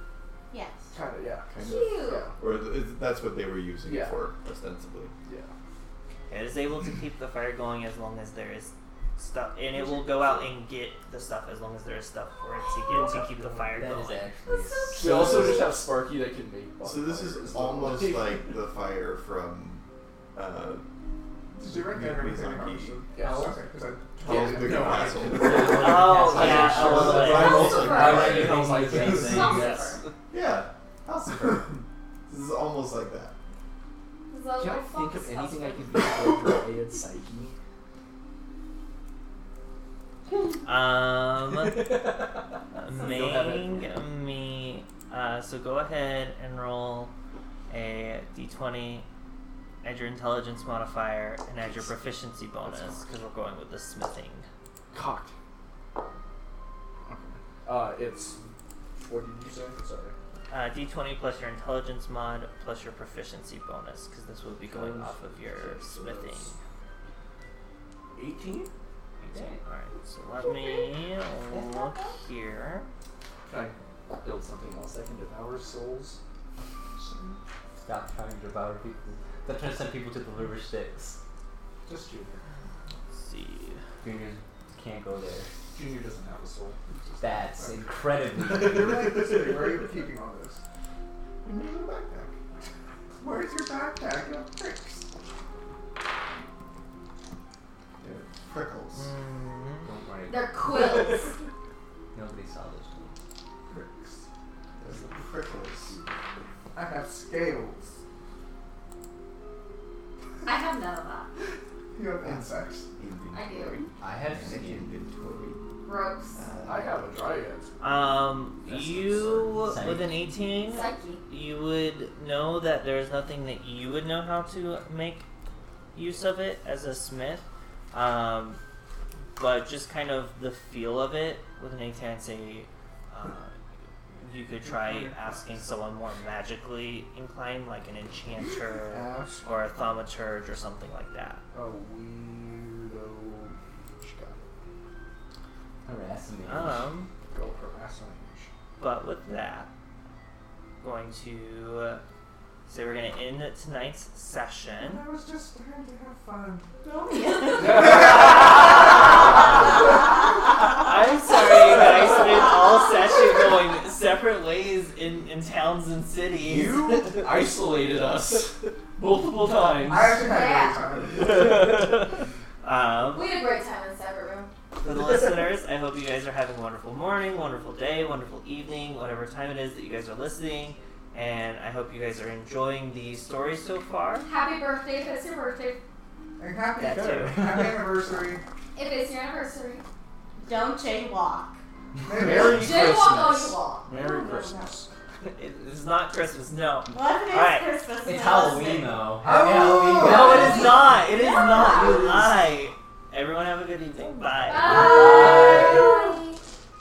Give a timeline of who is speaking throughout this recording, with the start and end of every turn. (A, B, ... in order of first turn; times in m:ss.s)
0:00.5-0:00.9 A
0:00.9-0:02.4 B
0:01.5-0:02.3 C
0:01.8-0:05.1 D
0:03.8-0:04.2 B
0:05.2-0:05.5 B
0:06.3-0:14.3 E
0:09.7-0:10.5 B
0:12.9-0:13.9 B
0:13.8-0:15.7 F
0:14.8-0:18.6 B
0:16.8-0:20.8 D
0:21.5-0:25.2 G
0:21.6-0:23.0 D
0:23.1-0:23.6 B
0:24.2-0:30.1 B
0:24.2-0:28.6 D
0:25.3-0:29.7 F
0:25.7-0:29.8 E
0:27.5-0:28.2 C
0:29.2-0:30.0 C
0:30.3-0:33.3 D
0:34.3-0:36.2 C
0:34.6-0:37.5 B
0:40.6-0:41.9 E
0:42.7-0:47.1 E
0:43.0-0:43.8 B
0:47.7-0:49.1 E
0:49.8-0:54.4 E
0:52.6-0:53.0 B
0:54.9-0:55.3 B
0:57.0-0:58.4 B
0:59.0-1:00.1 B
1:00.5-1:06.5 E
1:04.6-1:06.6 B
1:08.1-1:08.7 B
1:09.2-1:09.6 F
1:09.2-1:12.9 E
1:13.4-1:16.2 B
1:17.0-1:17.4 G
1:17.8-1:21.2 F
1:21.8-1:22.4 B
1:23.1-1:23.8 E
1:24.0-1:25.5 F
1:25.7-1:27.0 B
1:27.2-1:29.3 F
1:27.5-1:27.8 G
1:28.4-1:29.6 B
1:28.5-1:30.6 G
1:31.4-1:32.1 G
1:33.2-1:35.1 G
1:38.0-1:39.1 D
1:38.9-1:39.9 E
1:39.8-1:41.1 F
1:40.3-1:41.4 C
1:42.1-1:43.2 F
1:43.7-1:44.2 G
1:44.8-1:46.0 D
1:46.7-1:48.0 G
1:50.4-1:51.3 C
1:51.9-1:52.9 G
1:52.2-1:55.6 D
1:53.3-1:53.8 C
1:54.0-1:54.9 F
1:55.8-1:56.4 C
1:56.6-1:57.7 B
1:57.8-2:05.3 E
1:58.7-2:00.4 F
2:00.6-2:01.2 C
2:05.9-2:08.6 E
2:09.4-2:13.5 E
2:14.2-2:21.4 E
2:14.7-2:15.2 B
2:18.9-2:19.5 B
2:21.5-2:24.5 B
2:25.8-2:26.9 F
2:26.5-2:27.1 E
2:27.3-2:28.5 B
2:28.8-2:29.7 E
2:30.8-2:32.0 E
2:32.7-2:35.0 E
2:34.8-2:36.8 G
2:36.8-2:38.0 A
2:37.5-2:39.9 B
2:37.9-2:38.3 G
2:40.7-2:47.0 E
2:41.5-2:42.2 B
2:46.4-2:50.1 B
2:49.8-2:51.5 G
2:50.1-2:50.9 C
2:51.3-2:52.2 B
2:52.6-2:53.3 E
2:53.1-2:54.5 C
2:54.8-3:04.3 E
3:04.2-3:05.8 C
3:06.4-3:08.4 G
3:06.8-3:07.4 E
3:08.7-3:09.8 C
3:10.4-3:11.6 A
3:12.0-3:12.9 G
3:12.1-3:15.3 B
3:12.4-3:13.8 C
3:13.7-3:14.6 A
3:15.3-3:17.7 E
3:16.9-3:19.0 A
3:18.0-3:21.0 F
3:19.2-3:20.3 G
3:20.0-3:25.0 E
3:20.3-3:22.1 C
3:24.4-3:26.4 C
3:24.5-3:26.0 F
3:25.0-3:26.2 A